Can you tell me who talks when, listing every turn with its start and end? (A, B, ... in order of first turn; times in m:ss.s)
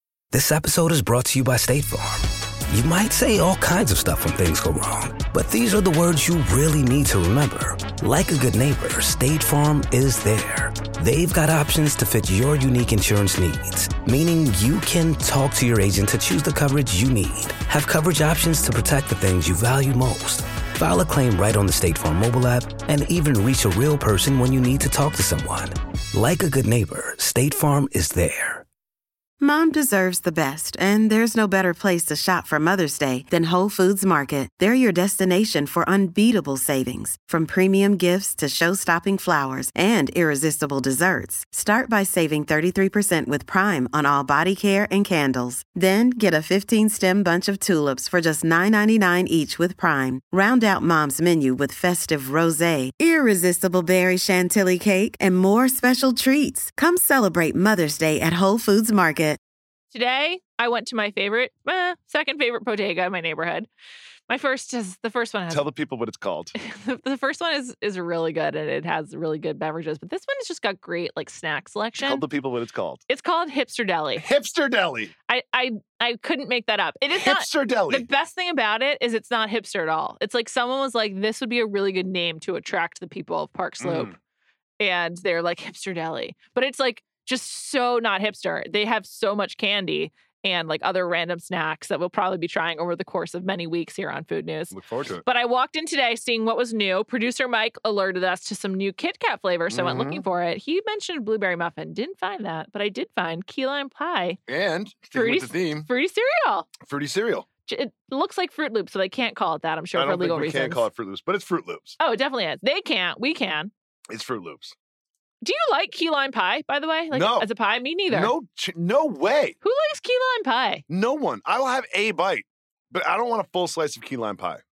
0:00.3-0:28.6 A
0:29.4-0:59.4 B
0:59.9-1:03.7 C
1:04.3-1:05.7 C
1:05.5-1:06.5 D
1:06.6-1:12.2 C
1:12.0-1:13.0 D
1:13.1-1:14.2 C
1:14.2-1:15.1 D
1:15.3-1:24.1 C
1:17.1-1:18.1 D
1:23.8-1:24.1 D
1:24.8-1:44.4 C
1:34.7-1:35.2 D
1:39.7-1:40.2 D
1:44.5-1:45.9 D
1:45.1-1:46.7 C
1:46.8-1:47.5 D
1:47.7-1:50.8 C
1:49.9-1:52.0 D
1:52.0-1:53.7 C
1:54.1-1:54.7 D
1:55.4-1:58.3 C
1:57.1-1:57.5 D
1:58.1-1:59.5 D
1:59.6-2:00.8 C
2:00.9-2:04.6 D